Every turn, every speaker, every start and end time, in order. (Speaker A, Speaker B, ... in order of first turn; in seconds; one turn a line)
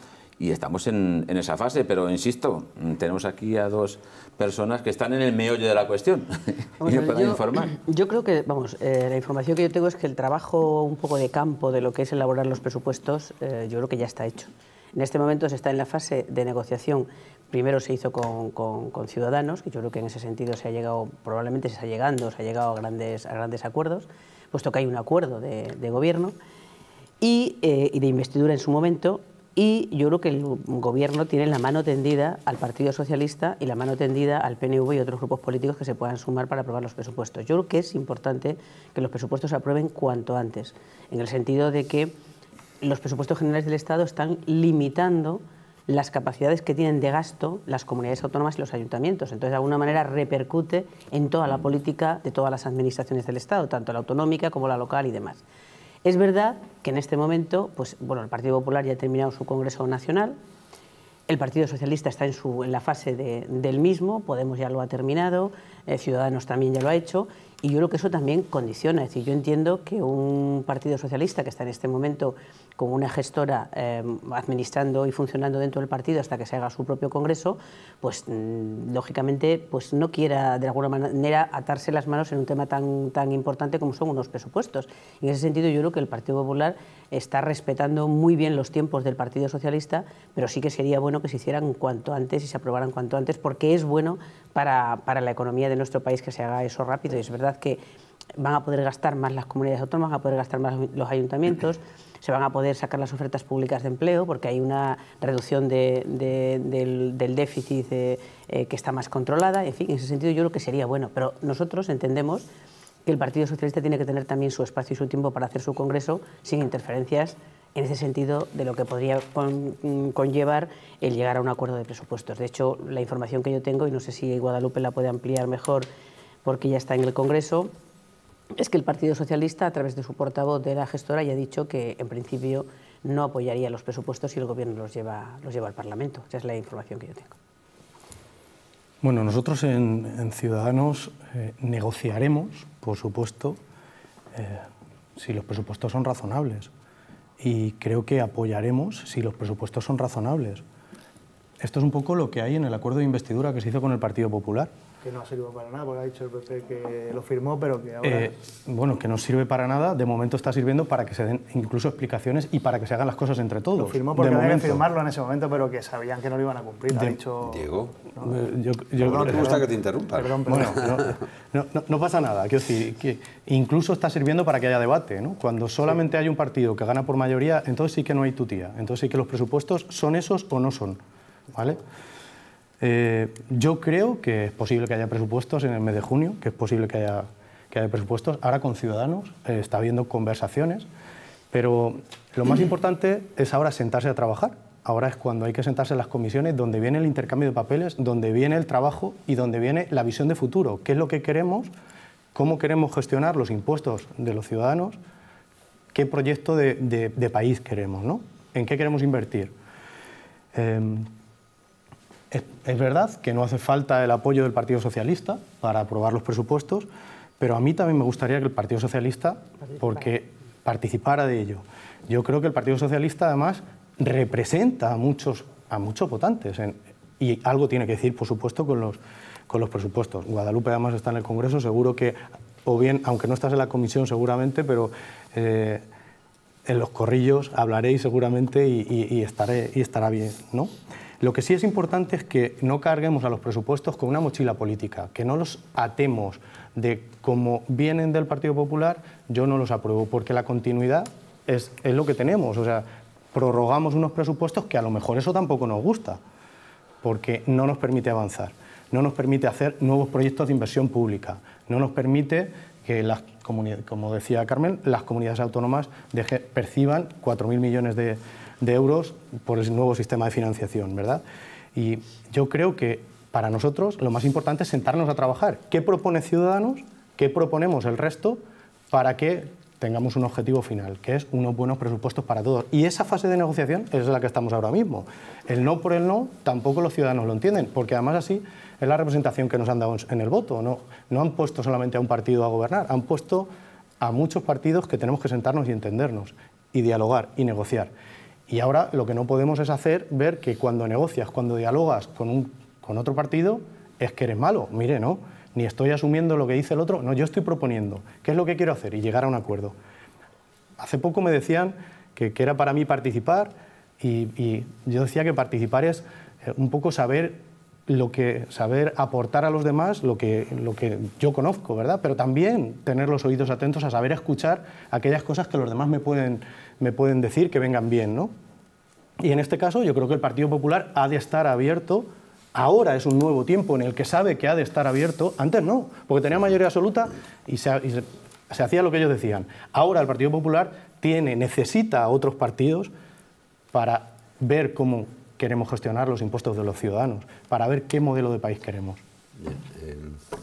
Speaker A: 0.4-7.8
Speaker B: 6.8-26.3
Speaker B: 27.2-42.1
Speaker B: 42.8-55.4
Speaker B: 56.0-60.4
Speaker B: 61.3-97.8
Speaker B: 98.4-112.5
Speaker B: 113.0-125.9
Speaker B: 126.4-127.7
Speaker B: 128.6-137.3
Speaker C: 139.0-143.6
Speaker C: 144.3-144.7
Speaker C: 145.2-146.7
Speaker C: 147.4-150.6
Speaker C: 151.6-154.7
Speaker D: 155.0-158.3
Speaker C: 158.0-164.8
Speaker D: 163.7-168.3
Speaker C: 166.9-167.2
Speaker E: 167.4-168.0
Speaker C: 168.2-169.7
Speaker E: 169.0-171.1
Speaker D: 169.2-169.6
Speaker D: 170.1-170.8
Speaker C: 170.5-181.0
Speaker C: 181.5-181.8
Speaker C: 182.8-190.9
Speaker C: 191.5-201.7
Speaker C: 202.3-205.0
Speaker C: 205.9-209.5
Speaker C: 210.5-211.1
Speaker C: 212.3-216.9
Speaker C: 217.4-235.8
Speaker B: 219.7-220.0
Speaker C: 236.7-256.2
Speaker C: 257.0-271.2
Speaker C: 271.7-293.5
Speaker C: 294.0-297.9
Speaker C: 298.5-309.7
Speaker C: 310.8-328.3
Speaker C: 329.2-342.9
Speaker C: 343.7-349.0
Speaker E: 349.4-350.2